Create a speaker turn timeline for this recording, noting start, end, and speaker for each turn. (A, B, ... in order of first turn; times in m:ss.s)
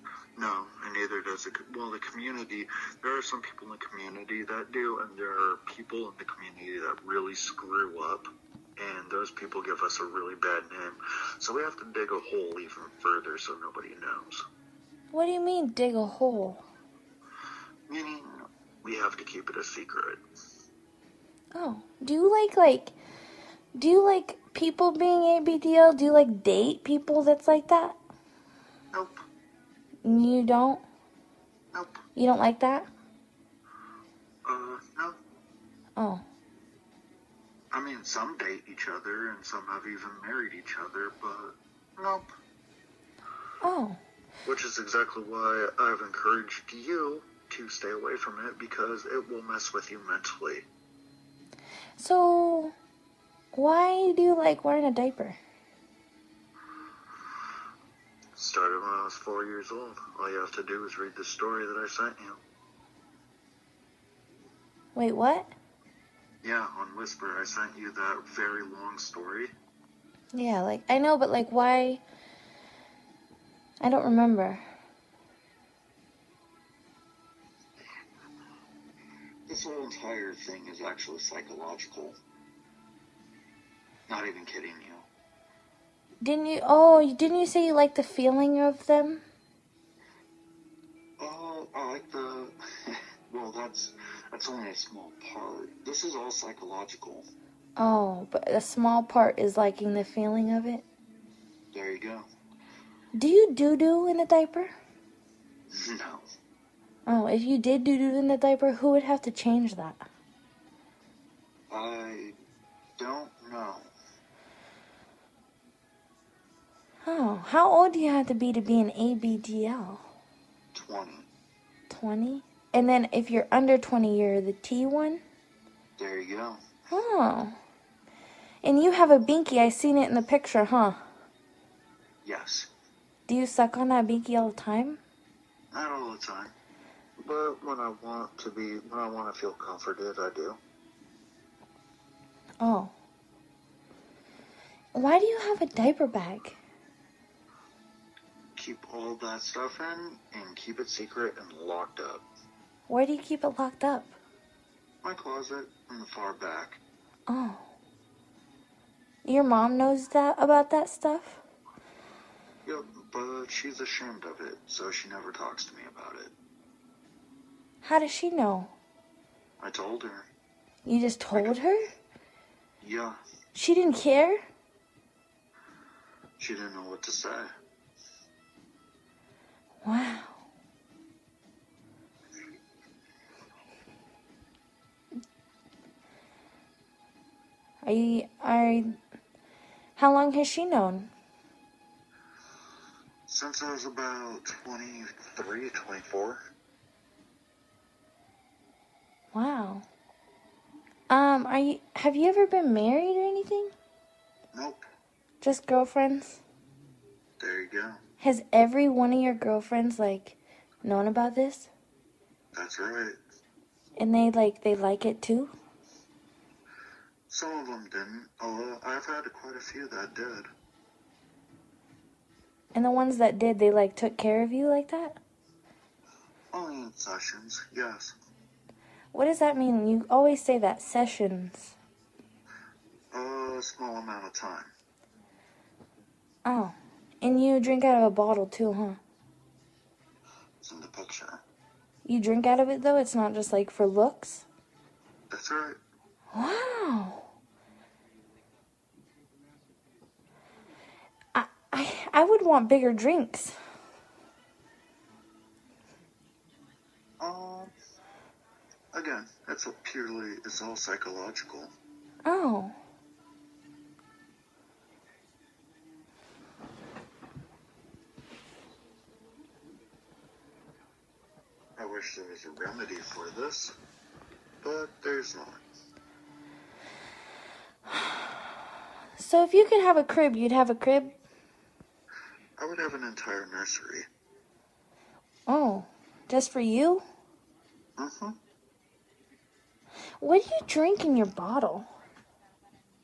0:00.4-0:14.4 A
0:15.1-0:16.6 B
0:17.9-0:20.2 A
0:21.5-0:23.0 B
0:23.8-0:28.0 B
0:28.9-0:29.2 A
0:30.0-0:30.8 B
0:32.2-0:32.9 B
0:34.4-0:35.2 A
0:36.0-0:36.2 B
0:37.7-0:42.3 A
0:43.6-0:44.0 B
0:44.4-0:50.7 A
0:52.0-0:52.7 B
0:53.5-0:55.4 B
0:58.4-1:02.4 A
1:05.0-1:05.5 B
1:06.4-1:09.5 A
1:10.3-1:12.0 B
1:13.8-1:14.6 B
1:19.5-1:22.2 A
1:24.1-1:25.1 A
1:26.2-1:29.2 B
1:31.2-1:37.3 A
1:37.8-1:40.8 B
1:41.7-1:42.3 A
1:43.1-1:44.7 B
1:45.7-1:46.3 A
1:47.1-1:50.0 B
1:51.7-1:52.4 A
1:53.0-1:53.9 A
1:57.0-2:00.0 B
2:00.7-2:01.3 A
2:01.9-2:05.2 B
2:06.0-2:06.6 A
2:06.9-2:07.6 B
2:08.6-2:11.0 B
2:12.2-2:12.7 A
2:13.3-2:15.0 B
2:15.7-2:16.5 A
2:17.2-2:20.6 A
2:22.6-2:22.9 B
2:24.9-2:26.6 B
2:28.6-2:32.2 A
2:32.9-2:34.2 B
2:35.0-2:36.8 A
2:37.3-2:37.7 B
2:39.2-2:41.4 B
2:42.7-2:46.3 A
2:47.8-2:48.7 B
2:49.6-2:50.3 A
2:50.8-2:51.8 B
2:52.8-2:53.2 A
2:53.5-2:54.4 B
2:56.4-2:57.5 A
2:59.8-3:00.4 B
3:07.8-3:09.0 B
3:10.0-3:11.1 B
3:13.3-3:16.4 A
3:19.3-3:19.9 B
3:21.1-3:23.7 B
3:24.5-3:24.8 A
3:25.4-3:26.4 B
3:27.4-3:28.0 A
3:28.2-3:31.7 B
3:32.5-3:33.2 A
3:34.0-3:35.5 B
3:37.3-3:40.5 A
3:42.7-3:45.2 B
3:46.5-3:48.2 A
3:49.1-3:51.8 B
3:53.1-3:54.7 A
3:56.4-3:59.0 B
4:00.6-4:01.4 A
4:02.0-4:04.5 B
4:05.3-4:05.8 A
4:06.3-4:07.3 B
4:11.3-4:13.6 B
4:17.2-4:17.7 A
4:18.9-4:21.7 A
4:22.2-4:22.8 B
4:31.8-4:33.8 A
4:34.6-4:35.6 A
4:39.2-4:41.1 B
4:42.6-4:44.1 A
4:45.5-4:47.0 B
4:48.0-4:48.4 A
4:50.2-4:51.9 B